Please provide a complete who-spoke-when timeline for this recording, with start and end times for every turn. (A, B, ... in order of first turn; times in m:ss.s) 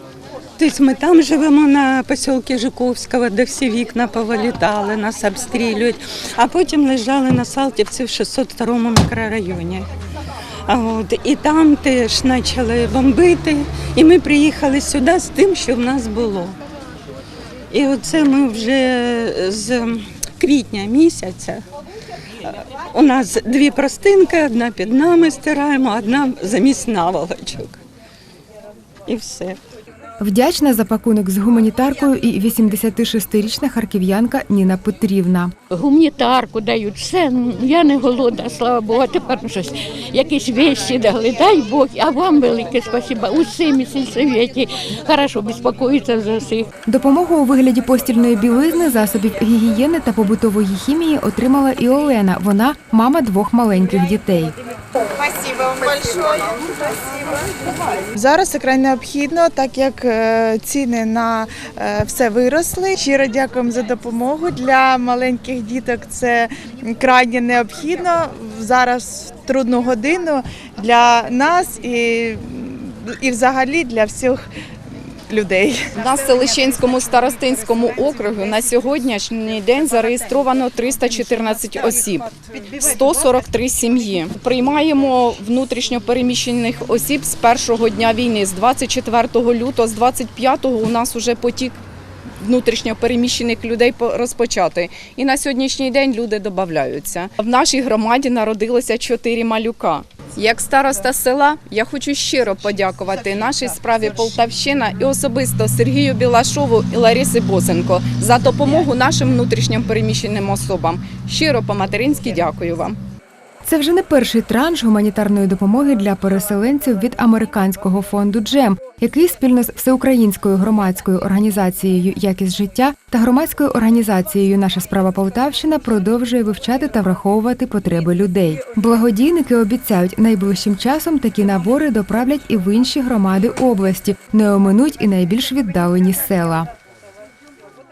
0:00.6-0:09.9 A
0:10.7-0:16.6 A
0:17.7-0:21.6 A
0:22.4-0:27.8 A
0:29.1-0:29.6 A
0:30.2-0:35.5 B
0:35.7-0:46.7 C
0:46.9-0:54.5 B
0:58.1-1:15.9 D
1:16.0-1:31.8 E
1:32.4-1:53.0 E
1:53.6-2:16.7 B